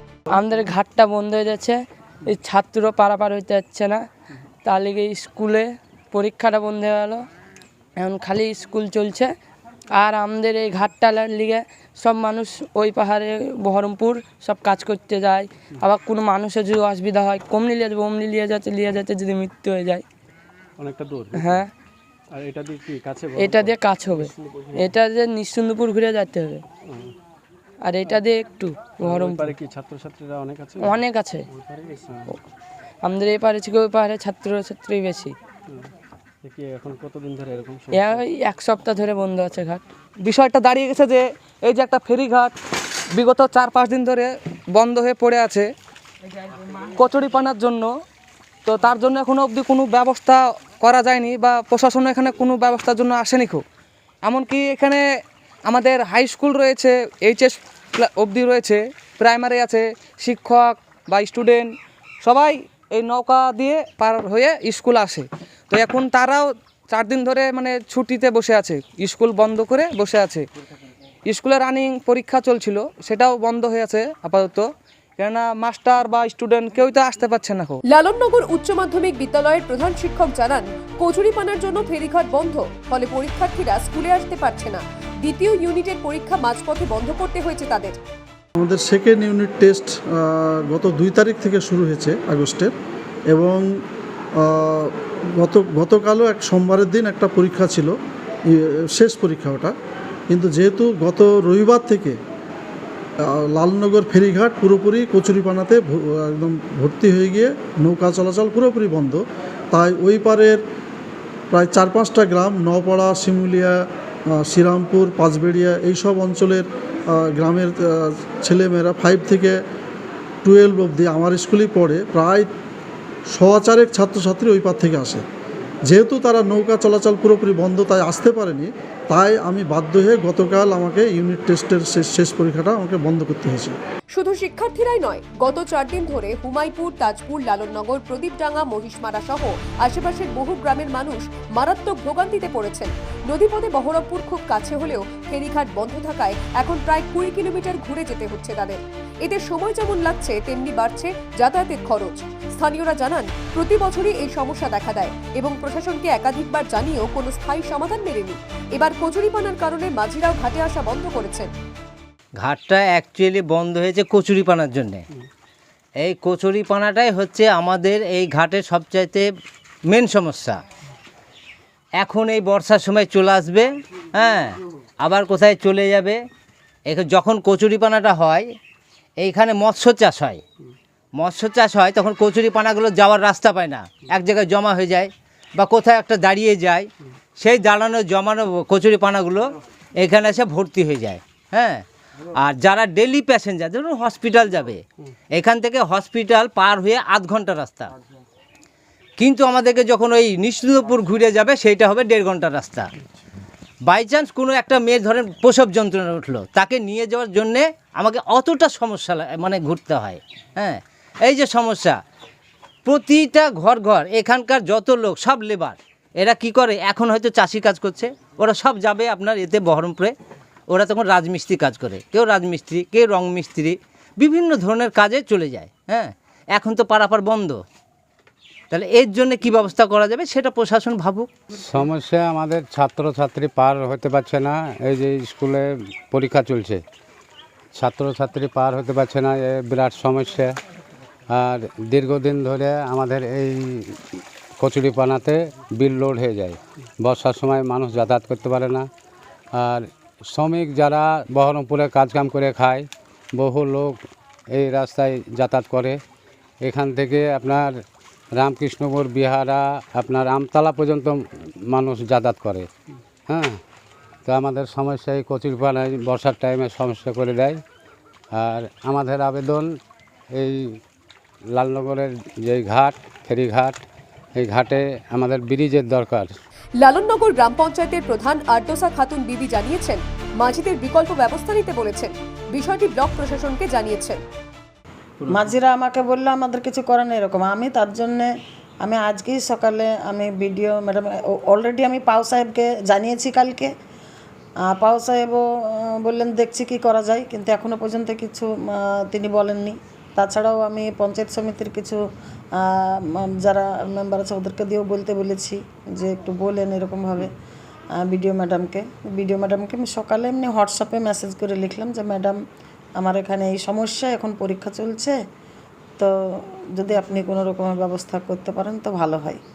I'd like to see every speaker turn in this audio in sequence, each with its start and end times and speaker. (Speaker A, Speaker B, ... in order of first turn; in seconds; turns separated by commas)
Speaker A: 0.3-4.0, Speaker A: 4.7-7.2, Speaker A: 8.0-9.3, Speaker A: 10.0-20.0, Speaker B: 20.8-21.6, Speaker A: 21.3-21.7, Speaker B: 22.3-24.8, Speaker A: 23.4-26.6, Speaker B: 26.9-27.1, Speaker A: 27.9-29.6, Speaker B: 29.0-32.3, Speaker A: 30.8-31.5, Speaker A: 33.0-35.3, Speaker B: 36.4-38.2, Speaker A: 37.9-39.8, Speaker C: 40.2-42.5, Speaker C: 43.1-45.7, Speaker C: 46.9-47.9, Speaker C: 48.7-53.6, Speaker C: 54.2-55.0, Speaker C: 55.7-70.5, Speaker C: 71.3-77.8, Speaker D: 77.8-88.0, Speaker E: 88.6-92.7, Speaker E: 93.3-93.7, Speaker E: 94.4-98.0, Speaker E: 98.5-99.8, Speaker E: 100.3-102.2, Speaker E: 103.3-110.6, Speaker E: 111.5-119.6, Speaker E: 120.4-122.5, Speaker E: 123.3-125.2, Speaker E: 125.9-133.8, Speaker D: 134.1-161.5, Speaker F: 162.4-165.1, Speaker F: 166.0-169.3, Speaker F: 169.9-170.6, Speaker F: 172.0-176.2, Speaker F: 176.9-178.5, Speaker F: 179.2-180.4, Speaker F: 181.2-191.8, Speaker F: 192.4-197.9, Speaker F: 199.2-202.9, Speaker F: 203.9-212.0, Speaker F: 212.8-220.1, Speaker F: 220.7-227.6, Speaker F: 228.7-231.3, Speaker G: 231.7-236.8, Speaker G: 237.8-240.5, Speaker G: 241.3-244.0, Speaker G: 244.6-248.9, Speaker G: 249.6-254.0, Speaker G: 254.5-256.0, Speaker G: 256.6-257.8, Speaker G: 258.4-262.7, Speaker G: 263.3-263.6, Speaker G: 264.3-267.6, Speaker G: 268.3-269.7, Speaker G: 270.4-270.8, Speaker G: 271.6-273.8, Speaker G: 274.4-276.3, Speaker D: 276.8-284.2, Speaker H: 285.2-288.3, Speaker H: 288.8-293.7, Speaker H: 294.7-302.0, Speaker H: 302.6-307.3, Speaker H: 308.0-312.4, Speaker H: 313.0-315.2, Speaker H: 316.0-319.4